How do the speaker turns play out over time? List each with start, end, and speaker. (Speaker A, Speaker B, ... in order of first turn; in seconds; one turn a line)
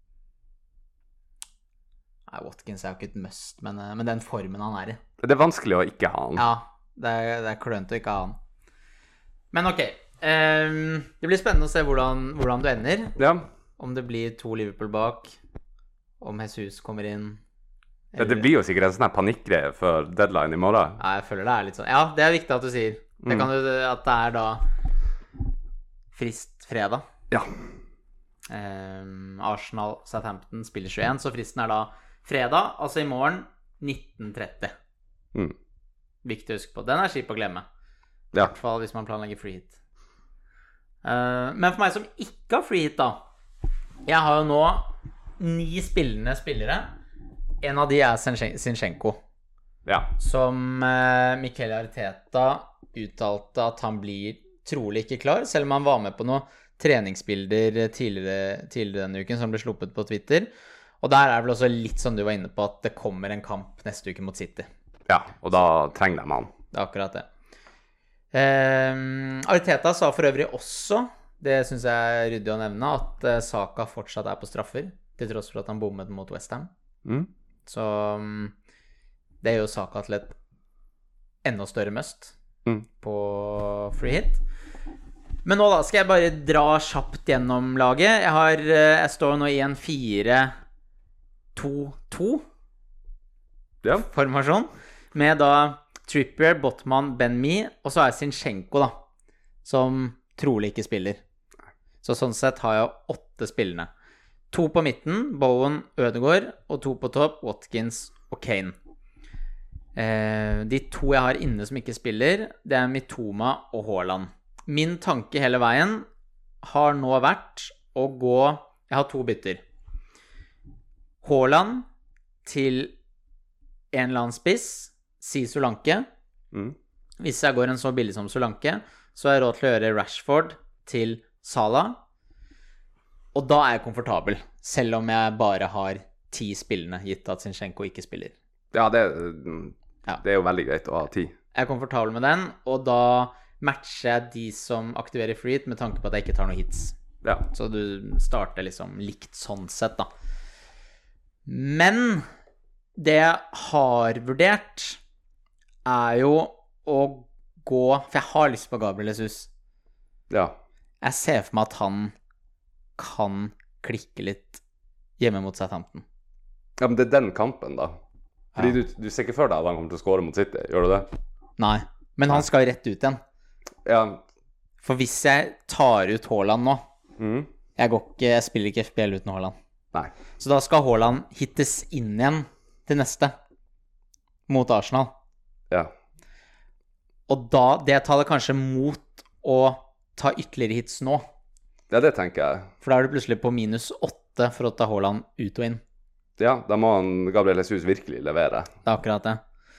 Speaker A: 2.3-5.0
Speaker B: 5.2-6.4
Speaker A: 6.4-8.4
Speaker A: 9.5-13.2
Speaker B: 13.2-13.5
Speaker A: 13.8-15.4
Speaker A: 16.2-17.4
Speaker A: 18.1-18.5
Speaker B: 18.2-21.0
Speaker A: 21.0-24.7
Speaker A: 26.1-27.0
Speaker A: 28.5-34.7
Speaker A: 36.2-37.6
Speaker A: 38.4-39.8
Speaker A: 41.0-43.2
Speaker A: 44.1-47.0
Speaker A: 47.6-49.2
Speaker B: 49.9-50.1
Speaker A: 50.2-60.5
Speaker A: 61.0-64.7
Speaker B: 65.1-66.5
Speaker A: 66.7-67.3
Speaker A: 68.3-76.7
Speaker A: 77.7-78.5
Speaker A: 79.4-80.4
Speaker A: 81.4-82.4
Speaker A: 82.9-84.4
Speaker A: 85.5-90.5
Speaker A: 91.5-92.4
Speaker A: 93.9-99.0
Speaker A: 99.6-101.2
Speaker A: 102.0-103.9
Speaker A: 104.5-108.8
Speaker A: 110.0-116.1
Speaker A: 116.6-119.6
Speaker A: 121.2-121.9
Speaker A: 122.5-123.0
Speaker A: 123.9-126.1
Speaker A: 127.2-132.0
Speaker A: 133.3-138.3
Speaker B: 138.7-141.3
Speaker A: 141.5-147.0
Speaker A: 147.5-150.1
Speaker A: 151.5-152.2
Speaker A: 153.0-155.0
Speaker A: 155.9-159.5
Speaker B: 160.3-160.6
Speaker A: 161.0-162.1
Speaker A: 163.0-164.6
Speaker A: 165.2-166.0
Speaker B: 166.8-167.9
Speaker B: 168.6-171.1
Speaker A: 171.6-173.2
Speaker B: 173.8-174.2
Speaker A: 174.8-176.8
Speaker B: 177.2-177.5
Speaker A: 177.8-179.5
Speaker A: 180.4-183.3
Speaker A: 184.5-185.1
Speaker A: 187.3-191.3
Speaker B: 191.9-192.7
Speaker A: 192.8-195.8
Speaker B: 196.4-198.7
Speaker A: 198.8-199.4